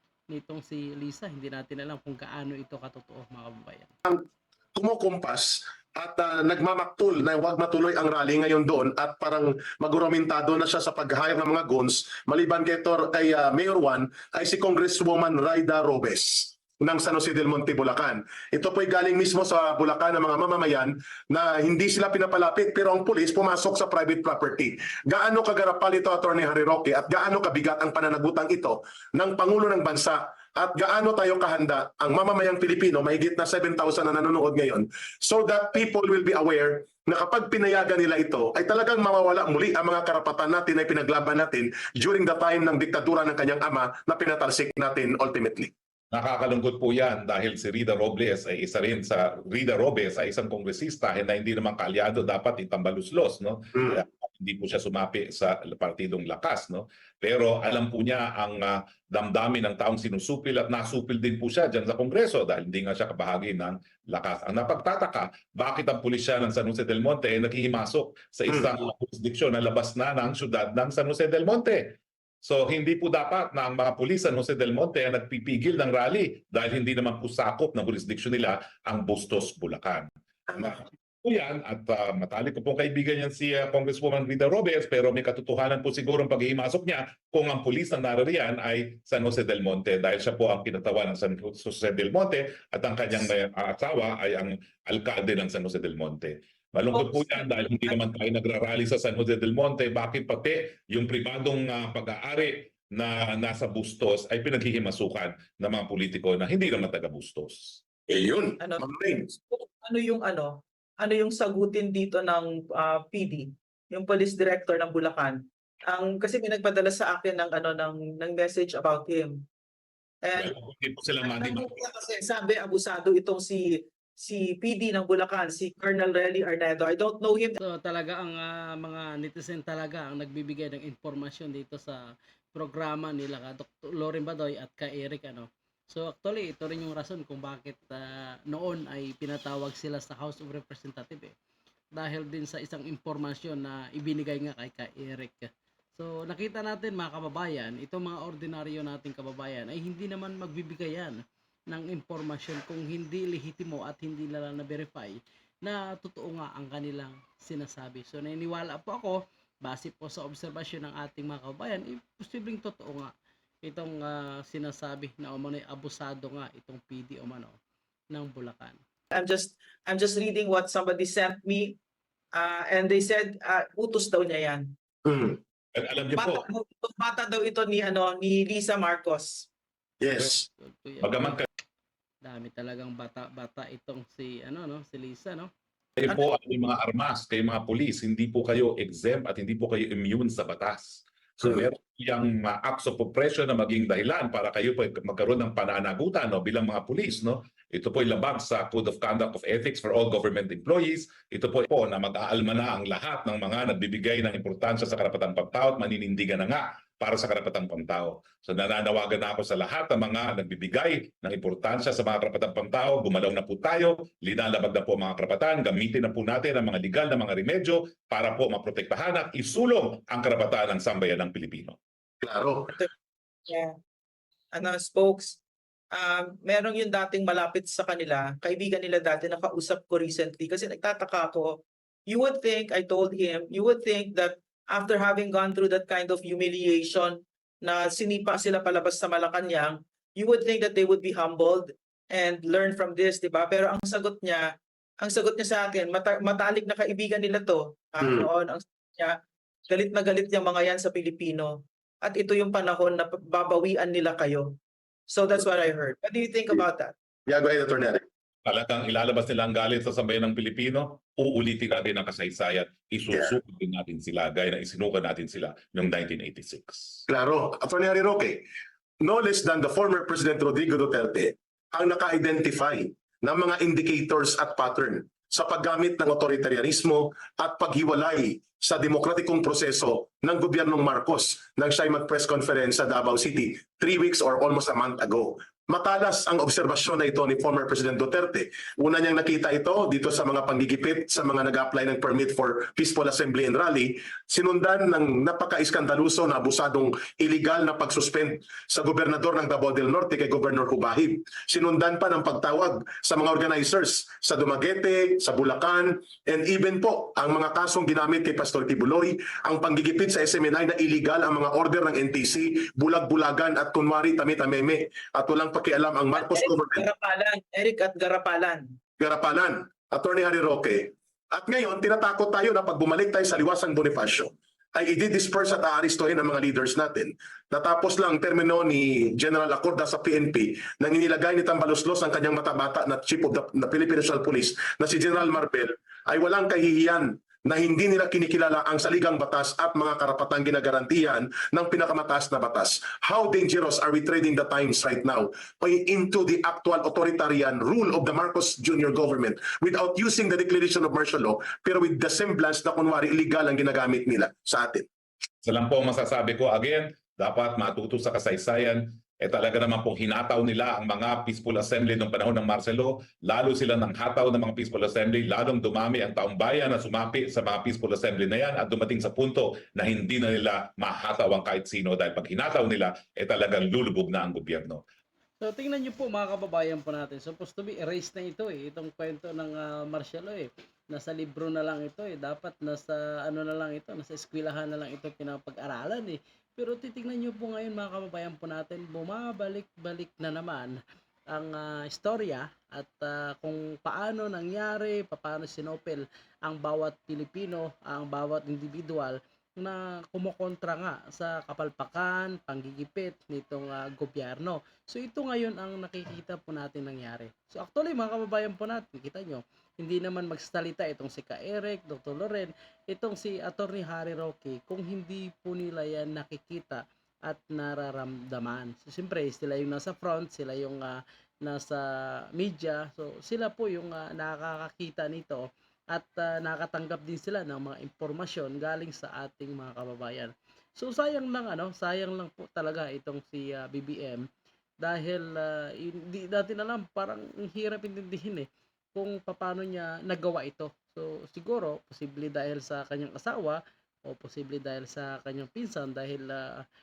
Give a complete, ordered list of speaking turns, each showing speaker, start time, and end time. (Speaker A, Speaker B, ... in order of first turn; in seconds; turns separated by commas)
Speaker A: 0.3-3.9, Speaker B: 4.1-45.7, Speaker C: 46.1-107.8, Speaker D: 96.9-97.9, Speaker B: 108.1-109.3, Speaker D: 109.5-119.4, Speaker D: 120.2-120.5, Speaker C: 120.4-121.8, Speaker D: 121.2-127.6, Speaker A: 127.6-141.3, Speaker A: 141.9-151.2, Speaker A: 151.7-163.1, Speaker A: 163.6-167.5, Speaker A: 168.1-168.8, Speaker D: 169.1-171.8, Speaker D: 172.3-174.7, Speaker B: 175.1-175.4, Speaker C: 175.8-176.4, Speaker D: 176.1-179.5, Speaker B: 180.0-180.5, Speaker A: 180.6-181.4, Speaker C: 181.0-181.5, Speaker A: 182.2-185.5, Speaker C: 186.0-221.8, Speaker B: 222.2-222.7, Speaker D: 224.5-225.4, Speaker D: 225.9-244.5, Speaker D: 245.0-249.2, Speaker B: 248.0-248.3, Speaker D: 249.7-254.5, Speaker D: 255.1-256.9, Speaker B: 257.3-258.0, Speaker C: 258.4-267.0, Speaker B: 267.1-268.4, Speaker B: 269.0-316.9, Speaker D: 316.2-318.6, Speaker B: 319.0-354.9, Speaker C: 355.4-374.8, Speaker A: 375.4-390.8, Speaker A: 391.3-434.3, Speaker A: 434.8-446.6